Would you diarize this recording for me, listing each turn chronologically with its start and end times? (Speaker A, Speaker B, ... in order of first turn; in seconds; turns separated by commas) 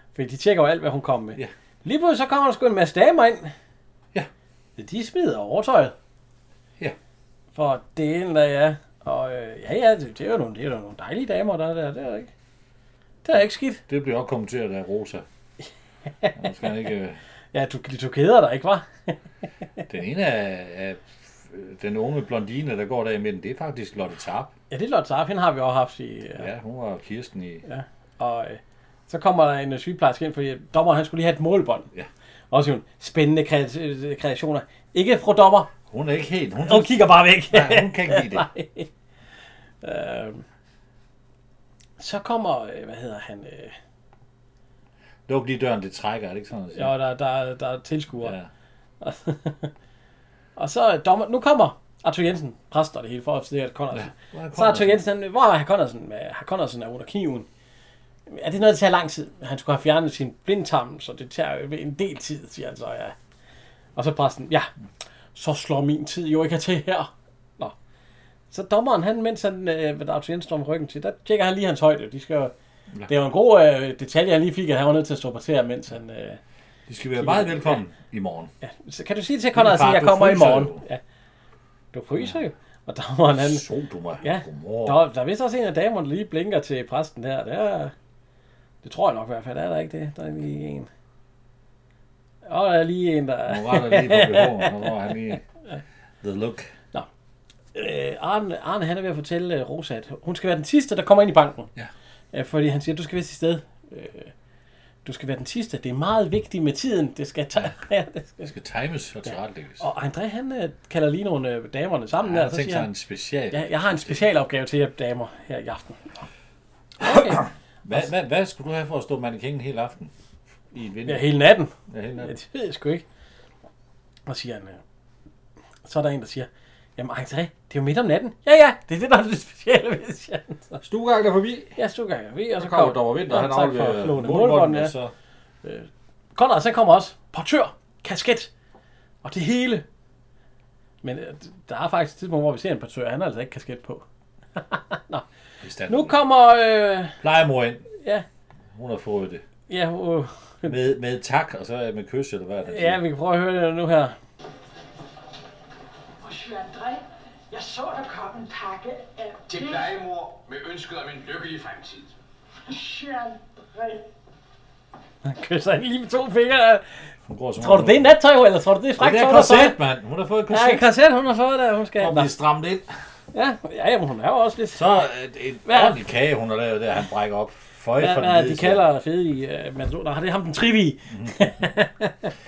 Speaker A: 0.1-3.5, Speaker A: 4.8-6.0, Speaker A: 7.5-12.3, Speaker A: 13.2-13.8, Speaker B: 13.9-15.2, Speaker B: 16.4-17.2, Speaker A: 17.5-19.2, Speaker B: 19.9-24.5, Speaker A: 24.7-26.5, Speaker B: 26.4-27.6, Speaker A: 27.6-31.9, Speaker A: 32.5-35.7, Speaker B: 35.9-38.5, Speaker A: 36.6-38.9, Speaker A: 39.8-40.4, Speaker A: 42.0-43.8, Speaker B: 45.3-46.9, Speaker A: 46.7-48.4, Speaker B: 48.2-48.5, Speaker A: 49.0-49.7, Speaker A: 50.6-57.5, Speaker B: 53.9-55.0, Speaker A: 58.3-63.1, Speaker A: 64.0-64.7, Speaker A: 65.3-67.7, Speaker A: 68.5-72.5, Speaker A: 73.1-76.4, Speaker B: 76.9-78.5, Speaker A: 77.2-77.8, Speaker A: 78.6-81.0, Speaker B: 79.5-80.8, Speaker A: 81.9-83.7, Speaker B: 82.2-82.4, Speaker B: 83.3-85.0, Speaker A: 84.2-87.9, Speaker A: 88.8-90.9, Speaker A: 92.5-95.0, Speaker B: 93.5-95.5, Speaker B: 96.2-96.7, Speaker A: 97.7-101.7, Speaker A: 102.3-104.3, Speaker A: 105.0-108.5, Speaker B: 108.5-109.8, Speaker A: 109.3-112.9, Speaker B: 112.2-114.3, Speaker A: 113.5-116.2, Speaker A: 117.0-118.0, Speaker B: 117.0-120.1, Speaker B: 120.7-121.3, Speaker A: 121.1-123.0, Speaker B: 121.9-122.3, Speaker A: 124.3-124.8, Speaker A: 125.8-130.8, Speaker B: 130.8-131.8, Speaker A: 131.8-134.9, Speaker B: 132.6-135.1, Speaker A: 135.6-138.5, Speaker A: 139.2-139.8, Speaker A: 141.0-144.0, Speaker A: 144.6-145.2, Speaker B: 145.6-146.2, Speaker A: 145.9-147.2, Speaker B: 147.2-147.9, Speaker A: 148.0-148.2, Speaker B: 148.7-149.4, Speaker A: 149.7-150.8, Speaker B: 150.6-153.0, Speaker A: 152.7-154.2, Speaker C: 156.3-157.0, Speaker C: 157.5-159.6, Speaker D: 159.6-162.1, Speaker C: 163.0-163.3, Speaker A: 165.2-166.9, Speaker B: 167.3-168.1, Speaker A: 167.6-169.8, Speaker B: 169.0-170.9, Speaker A: 170.5-172.3, Speaker B: 172.0-172.9, Speaker A: 173.3-174.9, Speaker B: 174.7-178.8, Speaker A: 175.7-176.0, Speaker A: 178.0-182.3, Speaker B: 181.1-181.7